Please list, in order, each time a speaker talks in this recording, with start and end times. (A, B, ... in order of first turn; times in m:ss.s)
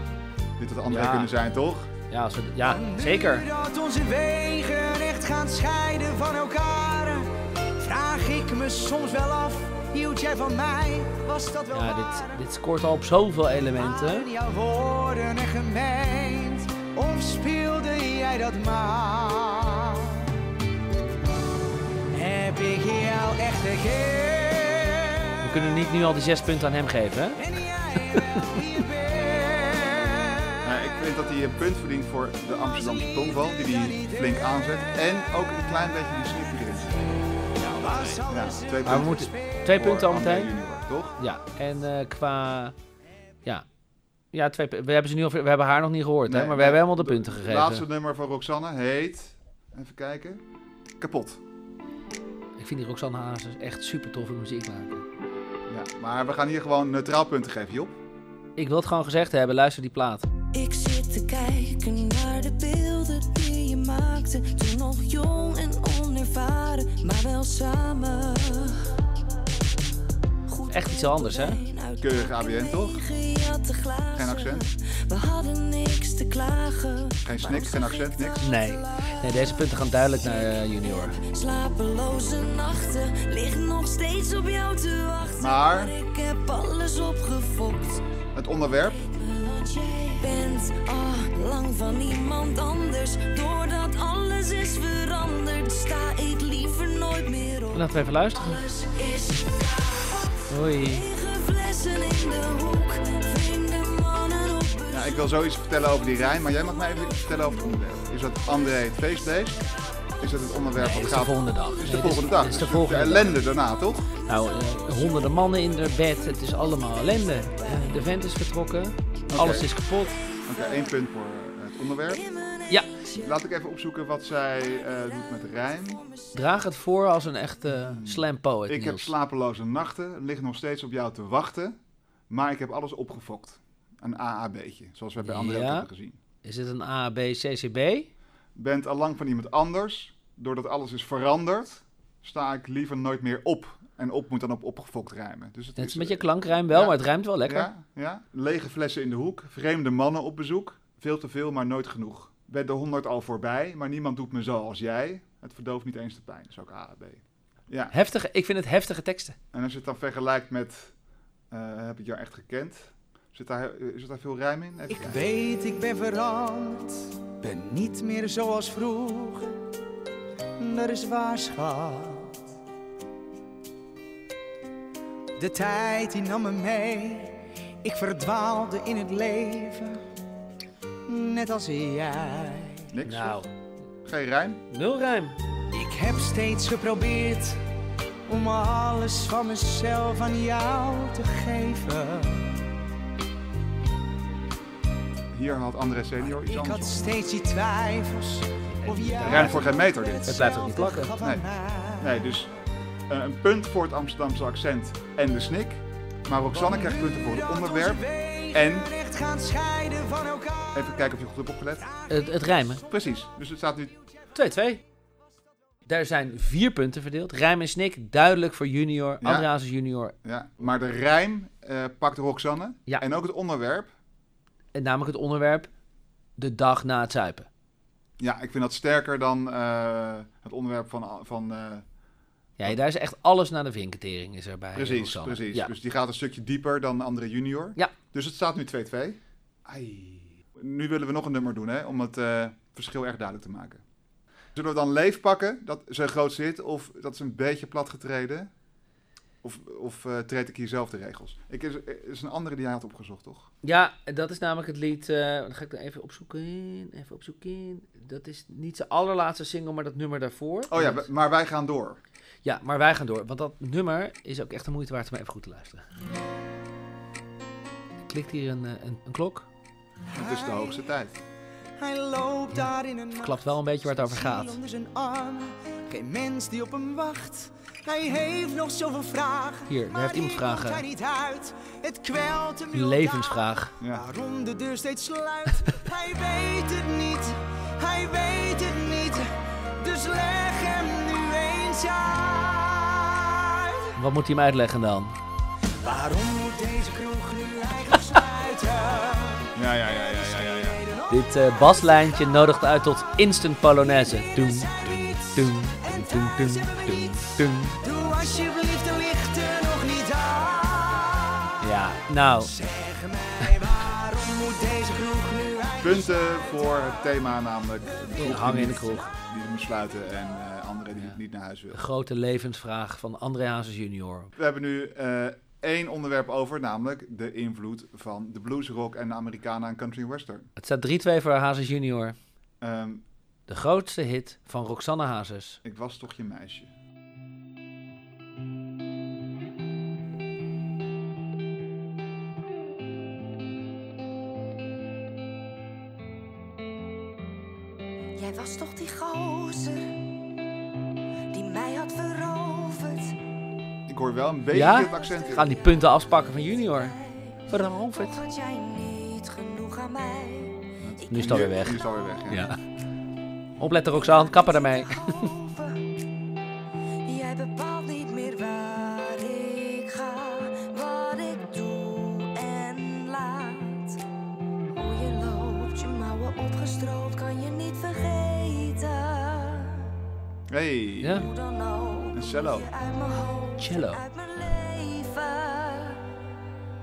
0:00.6-0:01.9 A
0:00.8-0:01.3 B
0:02.1-0:03.5 B
0:02.6-0:12.4 C
0:11.7-0:14.3 B
0:13.8-0:20.4 C
0:22.1-0:25.4 C
0:25.4-0:27.5 B
0:27.4-0:30.7 C
0:28.1-0:28.6 B
0:30.6-0:37.0 A
0:32.8-0:34.3 C
0:37.6-0:38.2 B
0:37.8-0:39.6 C
0:38.3-0:39.2 A
0:38.8-0:40.5 B
0:39.7-0:41.2 A
0:41.2-0:42.8 B
0:44.3-0:47.8 B
0:46.3-0:50.4 A
0:51.0-0:51.4 A
0:52.6-0:55.0 B
0:55.7-0:57.9 A
0:58.6-1:00.3 B
1:00.5-1:09.2 D
1:10.5-1:28.0 D
1:10.7-1:11.6 B
1:12.0-1:13.0 A
1:14.1-1:14.7 A
1:17.2-1:18.5 A
1:18.4-1:21.2 B
1:25.4-1:26.0 A
1:28.4-1:29.0 A
1:28.9-1:45.3 D
1:37.7-1:38.6 B
1:40.5-1:41.1 B
1:44.9-1:49.6 A
1:46.8-1:47.8 D
1:50.2-1:54.1 A
1:50.8-1:53.4 B
1:54.3-2:00.2 B
1:54.5-1:58.1 D
1:59.3-1:59.7 A
2:00.0-2:00.9 D
2:00.5-2:02.3 A
2:02.1-2:03.4 D
2:03.1-2:06.0 A
2:04.6-2:07.5 D
2:06.3-2:09.1 B
2:07.8-2:11.8 A
2:12.3-2:16.2 A
2:15.2-2:15.9 B
2:16.4-2:18.1 B
2:18.6-2:37.9 A
2:25.8-2:27.7 B
2:37.9-2:39.4 B
2:39.5-2:40.9 A
2:41.5-2:45.2 A
2:44.9-2:49.7 C
2:50.6-2:52.4 C
2:55.4-3:00.0 C
3:01.1-3:02.9 C
3:02.9-3:03.4 A
3:03.1-3:03.5 B
3:04.0-3:04.6 A
3:04.7-3:05.4 B
3:05.7-3:07.6 C
3:08.3-3:12.7 C
3:15.3-3:17.2 A
3:16.3-3:22.1 C
3:18.7-3:21.1 B
3:19.2-3:20.4 A
3:21.2-3:21.5 A
3:22.0-3:22.5 A
3:23.1-3:28.9 A
3:26.5-3:30.8 C
3:30.8-3:31.9 A
3:31.9-3:32.9 C
3:32.1-3:32.8 B
3:32.8-3:34.0 A
3:34.3-3:34.8 B
3:35.9-3:40.2 B
3:39.2-3:39.5 A
3:40.2-3:43.9 A
3:44.8-3:45.7 B
3:46.4-3:47.5 B
3:48.2-3:51.8 A
3:52.6-3:55.7 B
3:54.8-4:03.8 A
4:04.6-4:08.5 A
4:09.4-4:13.5 A
4:13.6-4:21.1 B
4:20.7-4:22.0 A
4:22.4-4:25.8 B
4:28.1-4:29.5 B
4:30.1-4:30.8 C
4:30.1-4:31.2 A
4:31.8-4:53.9 C
4:32.5-4:34.6 B
4:39.7-4:40.8 B
4:42.7-4:43.8 B
4:43.8-4:44.1 A
4:54.0-4:55.2 B
4:55.8-4:59.5 C
4:59.6-5:00.8 A
5:00.3-5:02.3 C
5:01.1-5:07.8 B
5:03.8-5:11.7 C
5:11.6-5:12.5 B
5:12.5-5:16.3 C
5:15.8-5:21.8 A
5:18.2-5:19.1 B
5:21.7-5:24.3 B
5:24.4-5:30.5 A
5:30.6-5:32.2 B
5:32.6-5:33.0 A
5:33.5-5:35.6 B
5:35.6-5:36.7 A
5:48.2-5:50.0 D
5:51.3-5:53.2 D
5:53.9-5:55.6 A
5:54.5-5:57.0 B
5:54.8-6:01.7 D
5:57.5-5:58.2 B
6:00.8-6:02.5 A
6:01.1-6:02.6 B
6:03.6-6:05.3 B
6:03.8-6:05.9 D
6:07.0-6:14.0 D
6:14.7-6:19.9 D
6:20.5-6:21.3 A
6:21.0-6:21.3 B
6:21.2-6:26.2 D
6:22.1-6:22.7 A
6:23.6-6:24.0 B